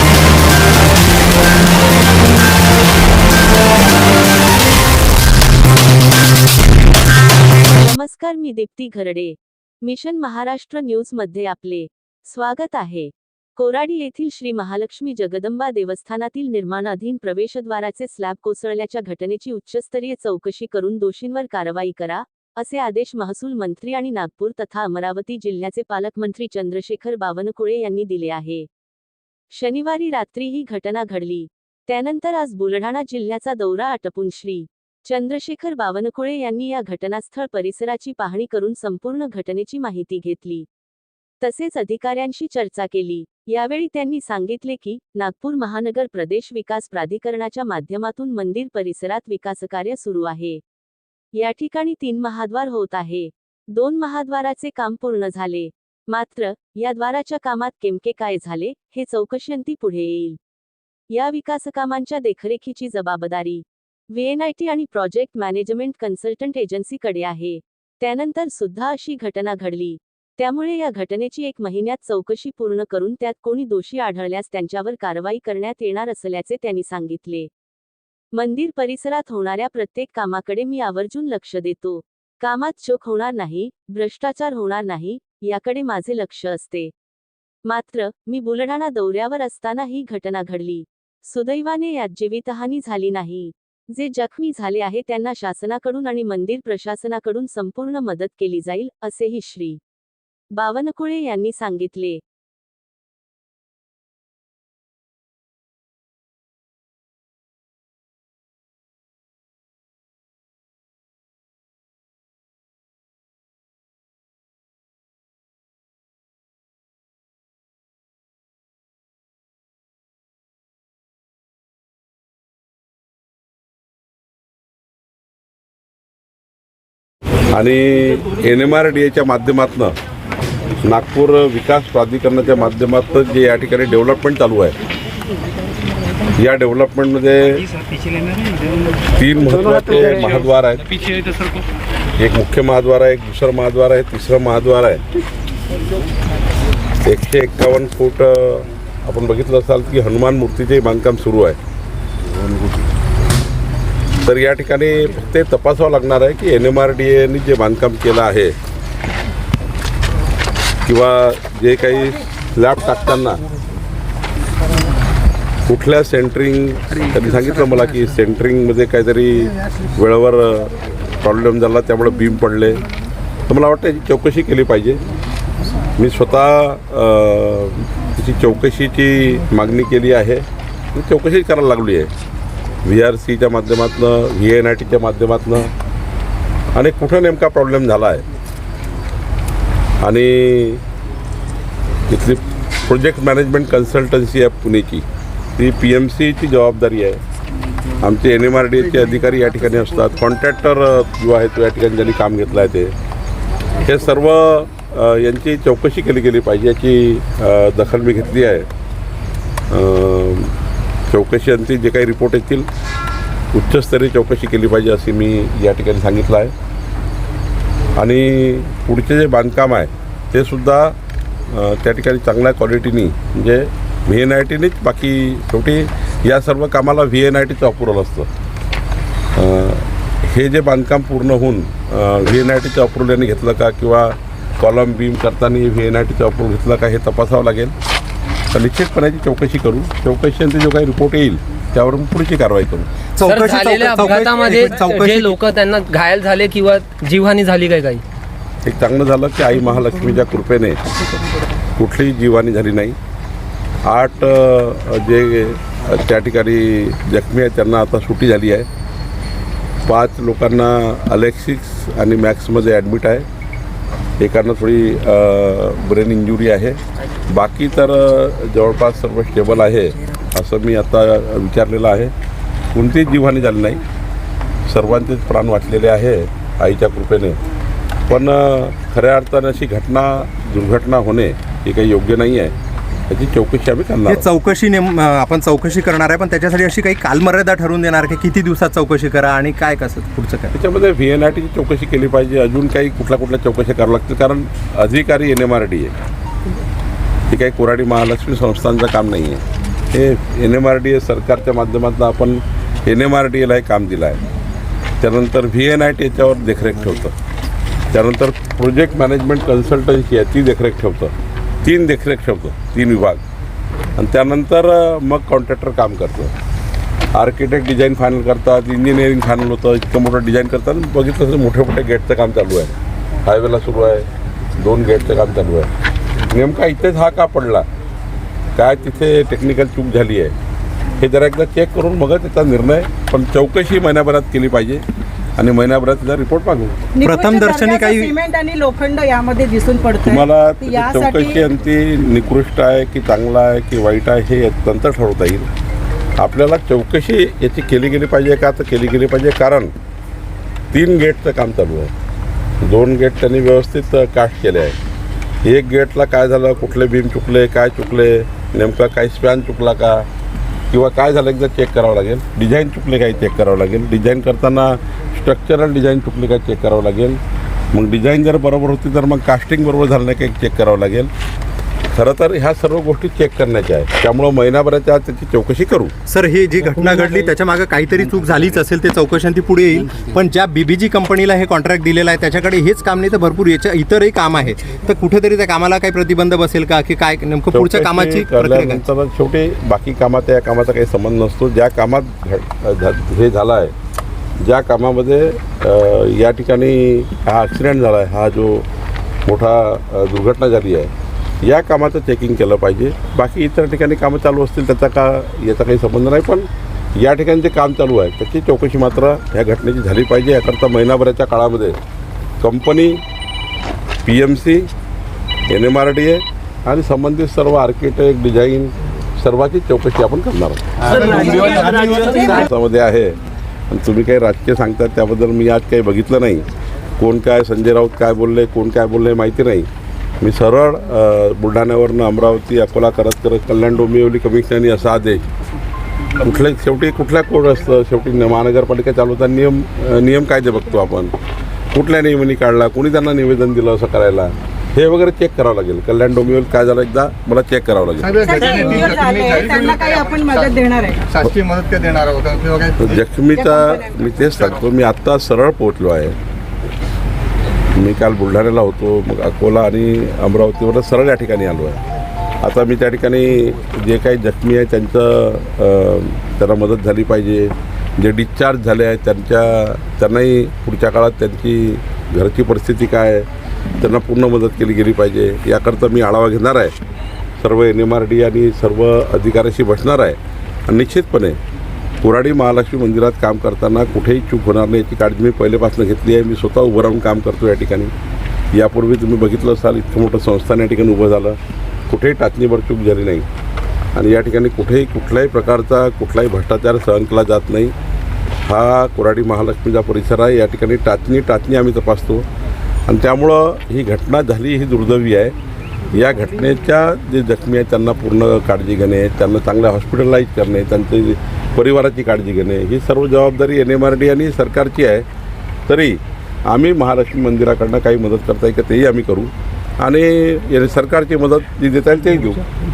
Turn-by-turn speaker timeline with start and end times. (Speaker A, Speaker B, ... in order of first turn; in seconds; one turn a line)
Speaker A: 7.7-28.7
Speaker A: 29.5-40.7
Speaker A: 41.4-50.6
Speaker A: 51.4-60.4
Speaker A: 61.1-77.5
Speaker A: 78.3-86.9
Speaker A: 87.7-99.8
Speaker A: 100.6-102.2
Speaker B: 127.5-130.0
Speaker B: 130.8-134.8
Speaker B: 136.3-137.7
Speaker B: 139.1-141.0
Speaker B: 142.2-145.0
Speaker B: 147.0-151.6
Speaker B: 154.2-158.6
Speaker B: 160.9-163.4
Speaker B: 165.7-172.8
Speaker B: 173.5-175.0
Speaker B: 176.0-182.1
Speaker B: 182.8-185.7
Speaker B: 186.7-188.3
Speaker B: 190.0-190.8
Speaker B: 192.1-195.1
Speaker B: 195.6-197.2
Speaker B: 198.0-202.9
Speaker B: 203.8-208.7
Speaker B: 209.7-210.5
Speaker B: 211.1-212.7
Speaker B: 213.5-216.5
Speaker B: 218.0-221.0
Speaker B: 221.5-228.3
Speaker B: 229.3-237.7
Speaker B: 238.5-242.9
Speaker C: 243.2-245.3
Speaker D: 243.2-248.0
Speaker B: 248.6-250.8
Speaker B: 251.8-253.0
Speaker B: 253.8-258.7
Speaker B: 259.9-263.3
Speaker B: 264.2-266.8
Speaker B: 267.3-272.1
Speaker B: 272.7-273.8
Speaker B: 274.7-277.4
Speaker B: 278.1-282.5
Speaker B: 283.1-284.3
Speaker C: 284.1-290.5
Speaker B: 290.5-295.9
Speaker B: 297.3-304.2
Speaker B: 305.0-307.1
Speaker B: 307.9-311.1
Speaker B: 311.6-313.2
Speaker B: 314.0-316.3
Speaker B: 317.1-322.7
Speaker B: 323.2-325.7
Speaker B: 326.3-327.7
Speaker B: 328.6-330.3
Speaker B: 331.0-334.9
Speaker B: 335.4-336.8
Speaker E: 337.0-341.4
Speaker C: 337.0-338.1
Speaker B: 340.0-345.5
Speaker B: 346.2-349.7
Speaker B: 350.7-351.9
Speaker B: 352.6-354.8
Speaker B: 355.4-360.1
Speaker B: 360.7-367.2
Speaker B: 367.7-371.1
Speaker B: 371.9-375.9
Speaker C: 376.1-388.8
Speaker B: 387.5-393.7
Speaker B: 394.4-398.7
Speaker B: 399.3-400.9
Speaker B: 401.4-411.8
Speaker B: 412.4-413.0
Speaker B: 414.0-414.7
Speaker B: 415.5-423.2
Speaker D: 421.1-422.0
Speaker B: 423.7-426.4
Speaker B: 427.0-429.7
Speaker B: 430.2-435.3
Speaker B: 436.2-441.1
Speaker B: 441.7-448.6
Speaker F: 448.2-450.2
Speaker E: 448.2-451.1
Speaker F: 451.1-452.8
Speaker B: 452.8-456.2
Speaker E: 453.4-453.9
Speaker B: 457.8-461.8
Speaker B: 462.4-473.3
Speaker B: 473.8-476.7
Speaker B: 477.4-481.4
Speaker B: 482.0-487.9
Speaker B: 488.5-491.4
Speaker B: 491.9-493.3
Speaker B: 493.9-497.7
Speaker B: 498.4-502.3
Speaker B: 502.9-505.4
Speaker B: 505.9-515.1
Speaker B: 515.7-522.5